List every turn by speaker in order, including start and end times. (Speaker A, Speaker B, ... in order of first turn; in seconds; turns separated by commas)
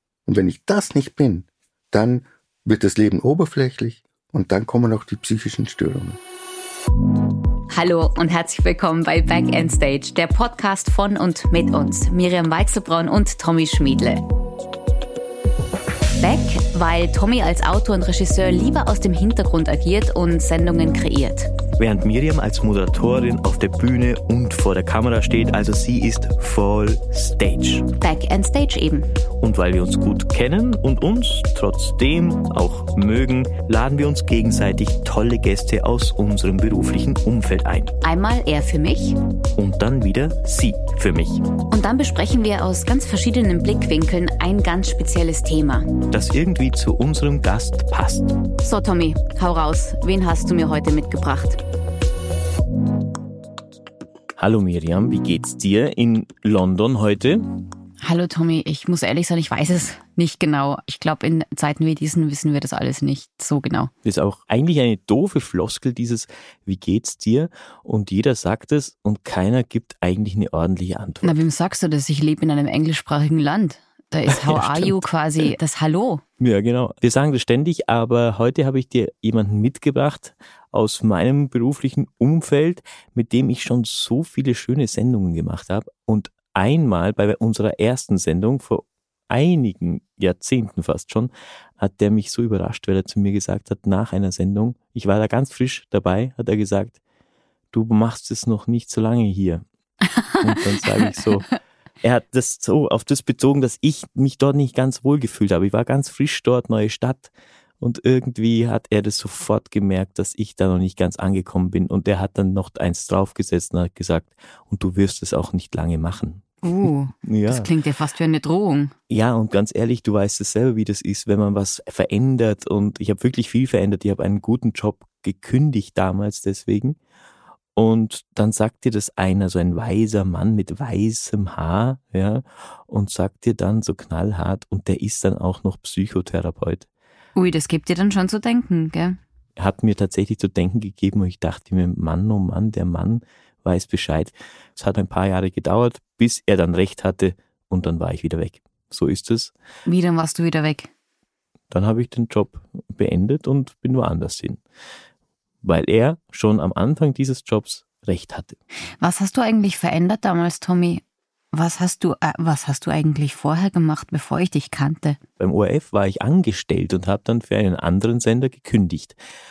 Speaker A: 0.3-6.2, Speaker B: 7.7-14.2, Speaker B: 16.2-21.5, Speaker C: 21.8-27.9, Speaker B: 28.0-29.1, Speaker C: 29.4-37.9, Speaker B: 38.0-39.2, Speaker C: 39.5-41.5, Speaker B: 41.7-46.0, Speaker C: 46.1-48.3, Speaker B: 48.6-51.6, Speaker C: 54.4-57.4, Speaker B: 58.0-63.9, Speaker C: 64.0-71.4, Speaker B: 71.2-76.2, Speaker C: 74.3-75.5, Speaker C: 76.4-97.0, Speaker C: 97.7-99.6, Speaker C: 100.4-101.5, Speaker B: 101.0-101.3, Speaker C: 102.0-117.7, Speaker B: 116.6-118.9, Speaker C: 119.1-127.0, Speaker C: 127.8-136.9, Speaker B: 137.3-139.2, Speaker C: 139.6-149.5, Speaker B: 149.8-150.9, Speaker C: 151.7-154.6, Speaker C: 155.6-158.6, Speaker B: 159.0-161.0, Speaker B: 161.5-165.2, Speaker C: 165.4-169.2